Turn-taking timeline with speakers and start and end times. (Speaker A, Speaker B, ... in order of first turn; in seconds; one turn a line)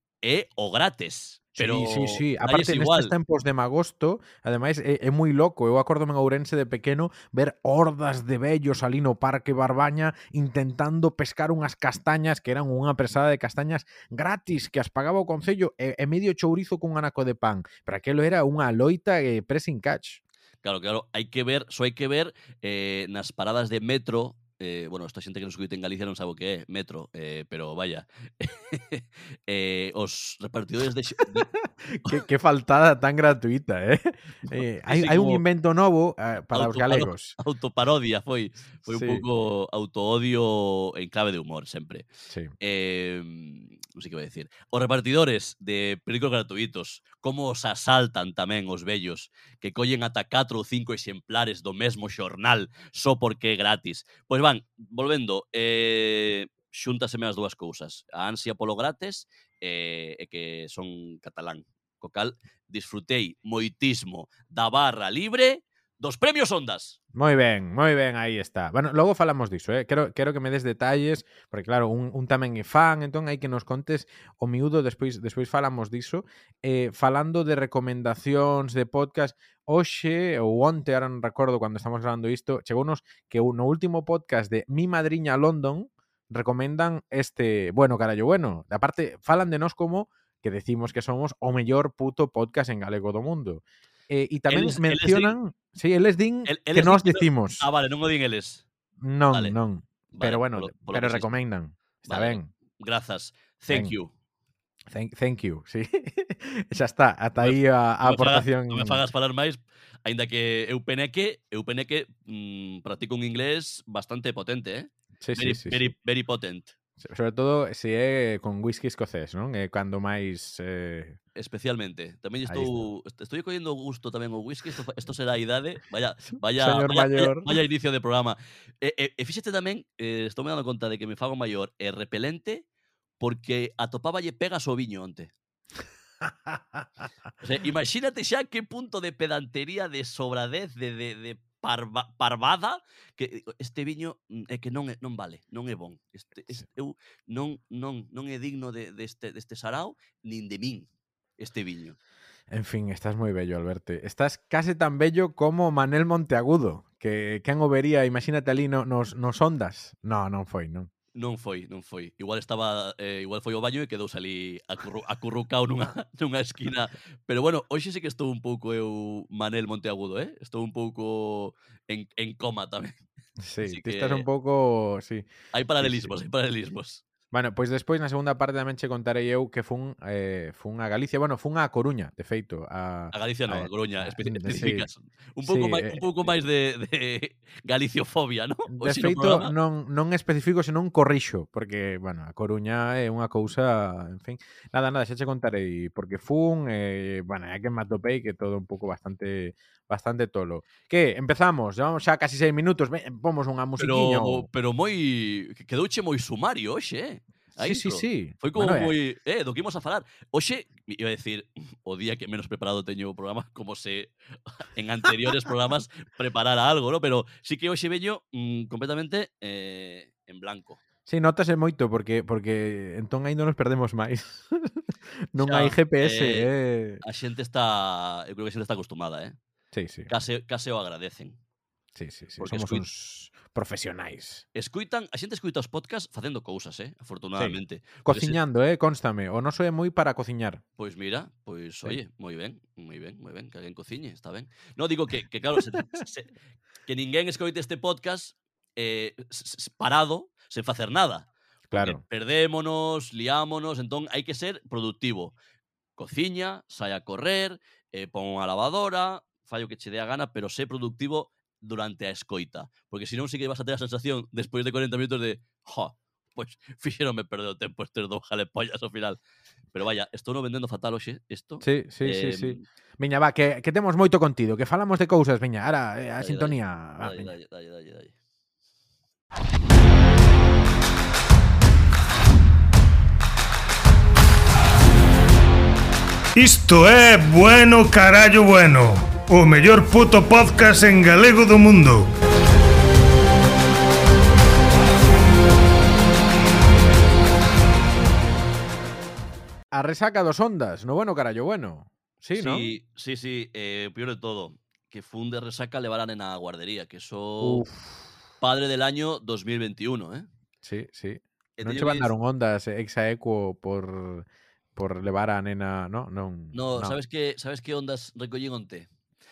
Speaker A: 0.2-3.1
Speaker B: 1.6-20.2
Speaker A: 20.6-31.5
Speaker B: 31.2-37.4
Speaker A: 34.5-35.4
Speaker A: 36.5-42.0
Speaker B: 38.9-39.2
Speaker B: 42.3-42.5
Speaker A: 42.6-67.0
Speaker B: 67.2-97.7
Speaker A: 94.5-95.3
Speaker A: 96.5-98.7
Speaker B: 99.0-102.5
Speaker A: 99.3-99.6
Speaker A: 100.1-101.3
Speaker A: 102.1-104.1
Speaker B: 104.9-109.0
Speaker A: 107.4-116.7
Speaker B: 115.2-115.9
Speaker B: 117.0-121.2
Speaker A: 121.3-132.7
Speaker B: 122.5-122.9
Speaker B: 126.3-127.5
Speaker A: 133.2-135.3
Speaker A: 137.4-152.0
Speaker B: 152.5-160.9
Speaker A: 161.2-173.0
Speaker B: 173.4-175.3
Speaker A: 173.6-174.3
Speaker A: 175.5-177.0
Speaker B: 175.8-176.1
Speaker B: 177.3-184.9
Speaker A: 183.1-189.5
Speaker B: 185.4-186.3
Speaker B: 188.7-204.5
Speaker A: 203.8-214.1
Speaker B: 207.6-208.9
Speaker A: 214.8-220.8
Speaker B: 221.1-224.8
Speaker B: 225.3-227.0
Speaker A: 225.4-226.5
Speaker A: 227.0-229.4
Speaker B: 229.7-230.1
Speaker A: 230.1-231.4
Speaker B: 231.9-234.4
Speaker A: 232.4-232.8
Speaker A: 234.6-238.4
Speaker B: 237.4-240.6
Speaker A: 240.8-246.3
Speaker A: 246.9-255.3
Speaker B: 251.7-252.0
Speaker A: 256.0-269.2
Speaker A: 269.7-272.6
Speaker B: 271.6-277.3
Speaker A: 276.2-278.1
Speaker C: 286.4-292.1
Speaker B: 299.7-302.7
Speaker A: 302.4-307.6
Speaker B: 307.4-308.1
Speaker A: 308.4-310.3
Speaker B: 310.6-317.0
Speaker A: 311.6-312.1
Speaker A: 316.5-318.9